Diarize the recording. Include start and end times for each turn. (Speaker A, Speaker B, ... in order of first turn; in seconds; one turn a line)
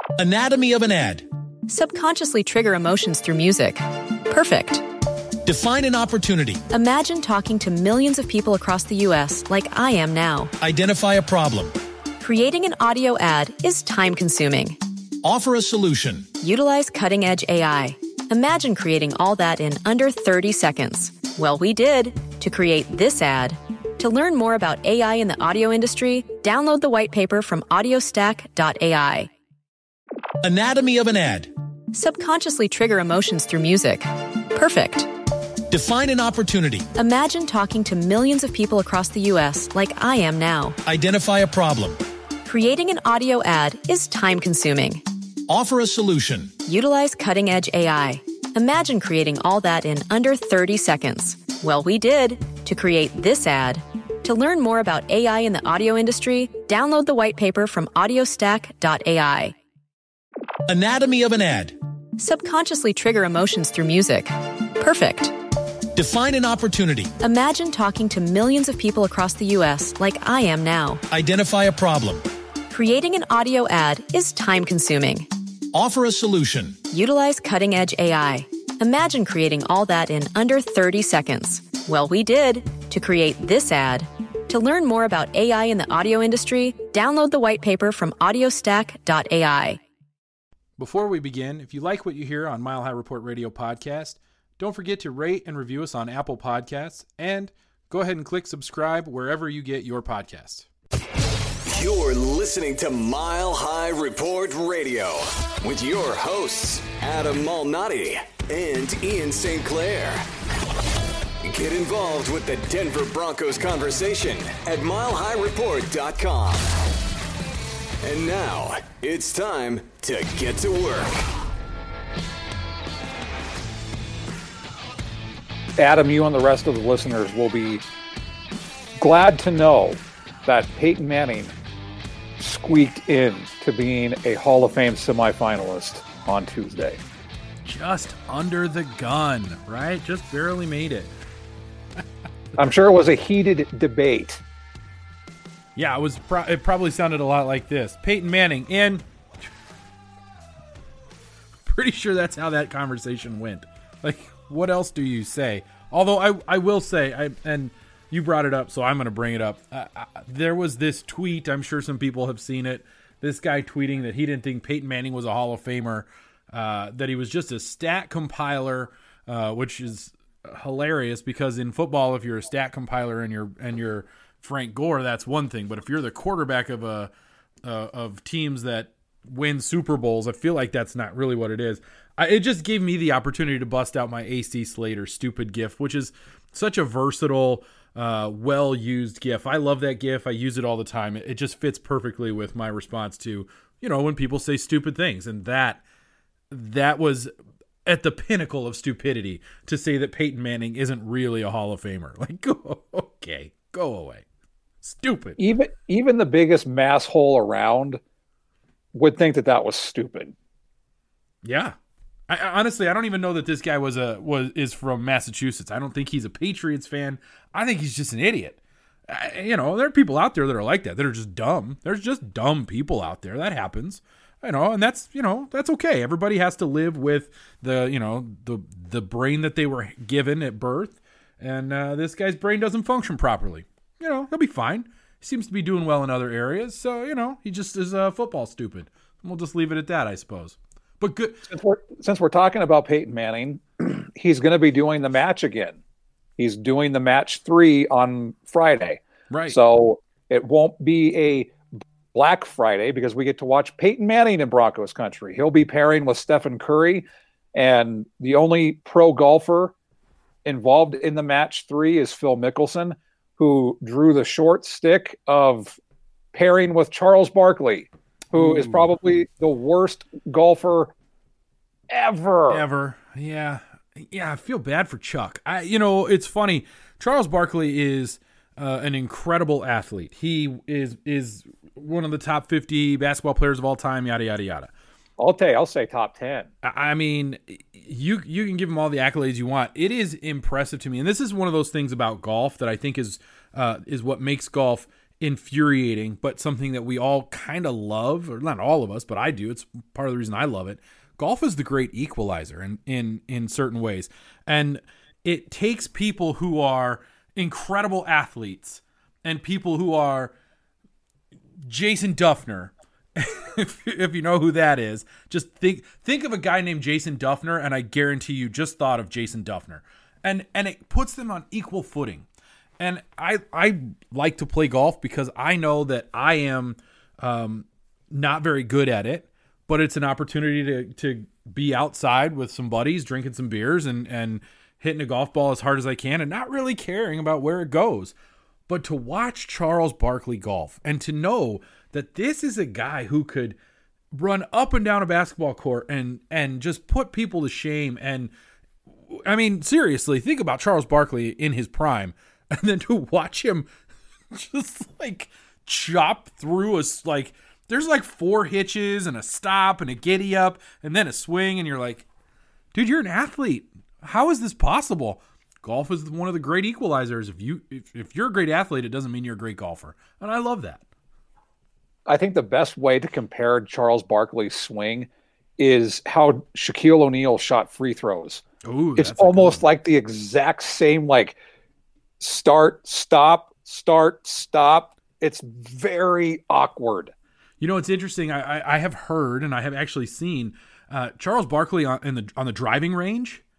Speaker A: 0.2-1.3
Speaker B: 1.7-4.8
Speaker A: 5.4-6.6
Speaker B: 6.7-10.5
Speaker A: 10.6-11.7
Speaker B: 12.2-14.8
Speaker A: 15.2-16.3
Speaker B: 16.4-29.3
Speaker A: 30.4-31.5
Speaker B: 31.9-35.1
Speaker A: 35.7-36.9
Speaker B: 37.0-40.8
Speaker A: 40.9-42.0
Speaker B: 42.5-45.0
Speaker A: 45.5-46.5
Speaker B: 46.7-59.5
Speaker A: 60.7-61.8
Speaker B: 62.2-65.3
Speaker A: 65.9-67.1
Speaker B: 67.2-71.0
Speaker A: 71.1-72.2
Speaker B: 72.7-75.3
Speaker A: 75.7-76.8
Speaker B: 76.9-89.8
Speaker C: 90.8-100.7
Speaker D: 101.7-110.2
Speaker D: 111.4-116.7
Speaker D: 118.0-121.2
Speaker E: 125.8-127.8
Speaker E: 129.0-131.5
Speaker E: 132.4-137.0
Speaker C: 137.7-141.1
Speaker E: 142.6-144.4
Speaker C: 145.8-149.0
Speaker C: 151.7-177.1
Speaker C: 177.6-195.8
Speaker C: 196.5-197.3
Speaker C: 197.9-204.2
Speaker C: 204.8-205.4
Speaker E: 205.4-208.0
Speaker E: 208.9-210.3
Speaker C: 211.4-211.8
Speaker C: 212.3-241.5
Speaker E: 241.5-245.8
Speaker E: 246.4-251.5
Speaker C: 249.3-249.6
Speaker E: 252.1-259.7
Speaker E: 260.4-265.8
Speaker E: 266.3-270.9
Speaker C: 268.4-268.9
Speaker E: 271.9-272.6
Speaker C: 272.5-284.7
Speaker E: 285.2-286.5
Speaker C: 286.6-310.3
Speaker C: 311.6-322.3
Speaker C: 322.8-338.1
Speaker C: 338.7-343.6
Speaker C: 344.1-348.3
Speaker C: 349.1-353.7
Speaker C: 354.3-362.1
Speaker C: 362.7-370.8
Speaker E: 372.1-375.1
Speaker E: 375.6-378.4
Speaker C: 378.6-379.6
Speaker E: 379.0-381.4
Speaker E: 382.2-387.1
Speaker C: 387.6-393.4